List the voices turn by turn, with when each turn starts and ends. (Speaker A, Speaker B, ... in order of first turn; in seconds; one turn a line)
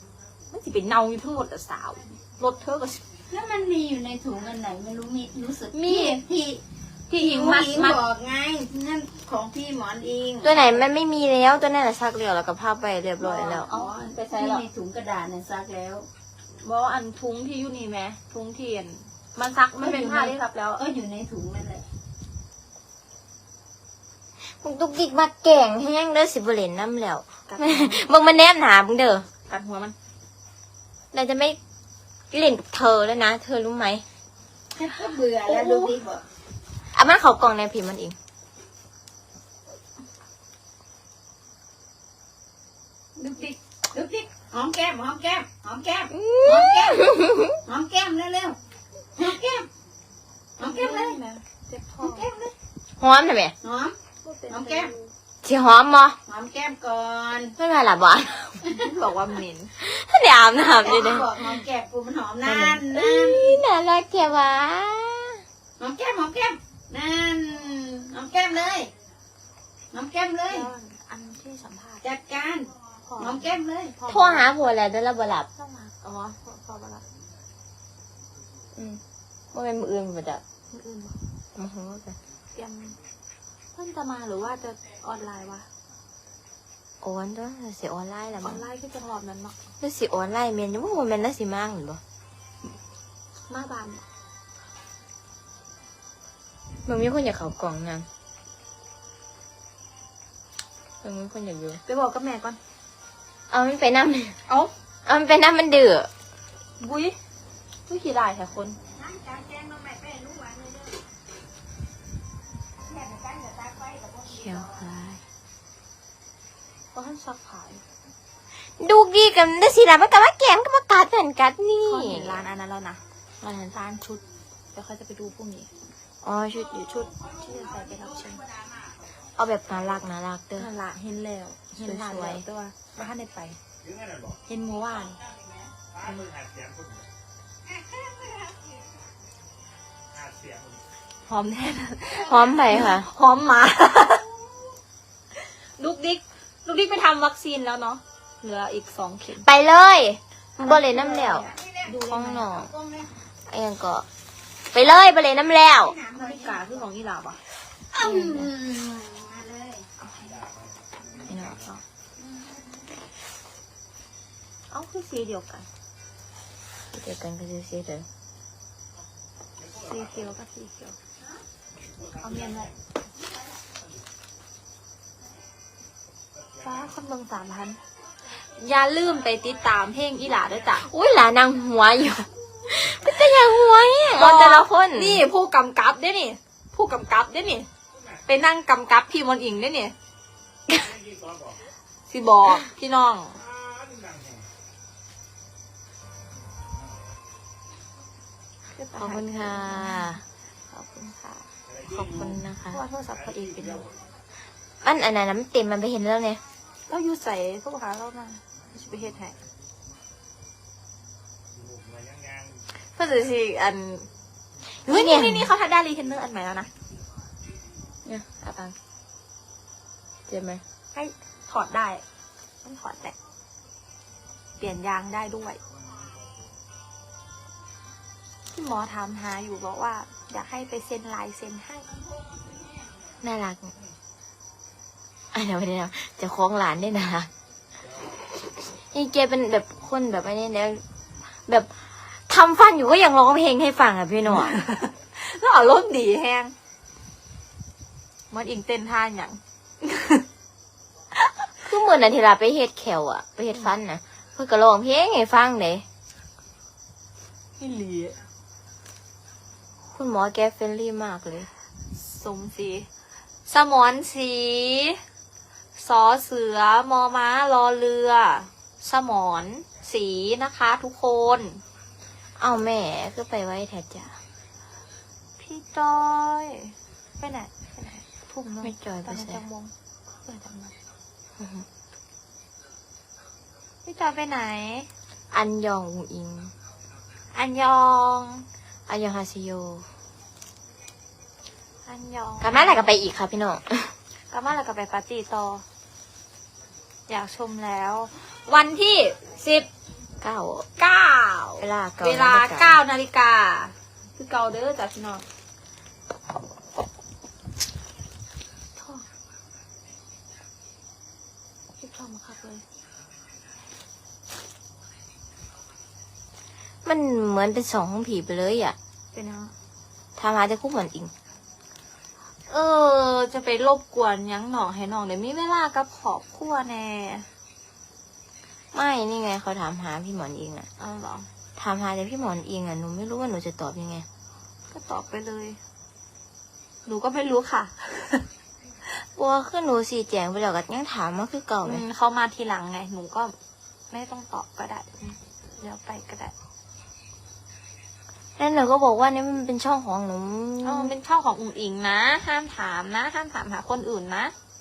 Speaker A: 0.5-3.0
Speaker B: 3.2-10.7
Speaker A: 5.7-6.2
Speaker A: 7.1-8.0
Speaker C: 10.4-13.7
Speaker B: 13.2-16.1
Speaker A: 13.3-14.6
Speaker A: 16.5-20.8
Speaker B: 19.8-21.9
Speaker C: 24.4-29.3
Speaker A: 27.5-28.0
Speaker A: 29.5-29.9
Speaker C: 31.1-31.6
Speaker C: 32.3-34.0
Speaker B: 34.7-36.2
Speaker A: 35.4-36.0
Speaker C: 36.8-38.1
Speaker A: 43.2-43.6
Speaker B: 43.9-48.6
Speaker C: 46.1-47.6
Speaker B: 49.1-49.7
Speaker B: 50.6-51.2
Speaker A: 50.6-52.3
Speaker B: 52.0-52.5
Speaker C: 53.0-53.5
Speaker B: 53.6-54.0
Speaker A: 54.2-55.1
Speaker B: 54.5-54.9
Speaker C: 55.4-56.2
Speaker B: 56.2-57.5
Speaker C: 57.6-58.6
Speaker A: 58.6-59.7
Speaker B: 58.7-59.0
Speaker C: 59.8-61.6
Speaker B: 60.7-63.6
Speaker C: 62.4-65.4
Speaker B: 65.8-68.9
Speaker B: 69.9-70.7
Speaker A: 70.5-72.0
Speaker B: 72.0-74.0
Speaker A: 73.0-74.5
Speaker C: 74.1-75.5
Speaker A: 75.6-77.0
Speaker C: 78.7-80.4
Speaker A: 80.7-81.2
Speaker C: 81.5-82.2
Speaker A: 82.5-83.0
Speaker A: 83.7-85.7
Speaker C: 87.0-88.6
Speaker A: 88.4-89.6
Speaker C: 89.8-92.0
Speaker A: 93.5-94.0
Speaker C: 96.8-98.1
Speaker C: 101.0-101.8
Speaker A: 101.8-102.6
Speaker C: 103.5-104.4
Speaker A: 104.5-104.7
Speaker C: 105.0-106.1
Speaker A: 106.8-107.2
Speaker A: 107.9-108.8
Speaker B: 108.9-111.0
Speaker B: 112.9-114.3
Speaker C: 114.2-115.2
Speaker A: 116.9-117.8
Speaker C: 118.5-122.4
Speaker A: 121.8-123.0
Speaker C: 123.4-123.7
Speaker A: 123.7-124.2
Speaker A: 124.7-125.7
Speaker C: 126.2-127.1
Speaker A: 126.7-128.4
Speaker C: 129.3-130.7
Speaker A: 130.6-133.6
Speaker C: 131.7-132.4
Speaker A: 134.4-135.2
Speaker A: 136.0-136.3
Speaker B: 137.8-138.6
Speaker A: 141.2-144.3
Speaker C: 142.1-143.1
Speaker A: 145.3-149.4
Speaker C: 149.3-151.5
Speaker B: 150.7-152.0
Speaker A: 151.3-152.7
Speaker C: 152.1-152.7
Speaker B: 152.6-153.1
Speaker C: 153.3-154.1
Speaker C: 154.7-155.9
Speaker B: 155.8-156.7
Speaker A: 156.1-157.4
Speaker B: 157.9-159.9
Speaker C: 158.0-158.5
Speaker A: 160.0-160.4
Speaker C: 161.2-161.8
Speaker B: 162.3-162.6
Speaker A: 164.7-165.7
Speaker C: 166.9-168.1
Speaker A: 169.7-171.0
Speaker A: 172.1-172.7
Speaker A: 176.6-180.9
Speaker C: 180.7-185.2
Speaker A: 184.2-187.7
Speaker A: 188.2-189.9
Speaker A: 192.1-193.4
Speaker A: 198.7-201.5
Speaker C: 199.0-200.2
Speaker C: 201.8-202.8
Speaker A: 202.7-203.9
Speaker C: 204.8-206.4
Speaker A: 206.9-209.4
Speaker A: 212.8-214.1
Speaker A: 214.7-216.7
Speaker C: 214.9-215.5
Speaker C: 218.0-218.8
Speaker C: 220.3-220.6
Speaker A: 220.9-222.0
Speaker A: 222.6-223.1
Speaker A: 224.6-225.6
Speaker A: 228.5-231.9
Speaker C: 233.2-233.7
Speaker C: 235.3-237.3
Speaker C: 238.4-244.6
Speaker A: 244.3-246.5
Speaker A: 248.3-250.2
Speaker A: 251.2-251.5
Speaker C: 251.7-255.8
Speaker A: 257.6-258.2
Speaker C: 259.9-261.5
Speaker A: 261.9-262.9
Speaker A: 263.5-265.0
Speaker A: 265.8-271.6
Speaker C: 272.4-274.2
Speaker A: 275.4-280.7
Speaker C: 278.6-279.4
Speaker C: 281.4-281.7
Speaker A: 283.8-284.9
Speaker C: 285.3-286.5
Speaker A: 287.3-288.5
Speaker C: 288.9-289.9
Speaker A: 291.8-293.0
Speaker C: 292.4-293.9
Speaker A: 294.1-295.6
Speaker A: 297.1-299.7
Speaker C: 300.2-300.6
Speaker A: 300.8-305.2
Speaker C: 301.6-302.8
Speaker A: 308.7-309.1
Speaker A: 311.8-312.6
Speaker C: 316.8-318.8
Speaker A: 319.1-319.5
Speaker C: 320.2-321.1
Speaker A: 322.5-327.3
Speaker C: 328.7-330.7
Speaker A: 330.8-331.3
Speaker C: 331.6-334.1
Speaker A: 334.7-335.6
Speaker A: 336.9-338.2
Speaker C: 338.9-341.9
Speaker A: 341.6-343.3
Speaker A: 343.9-346.3
Speaker C: 348.4-350.9
Speaker A: 350.6-354.3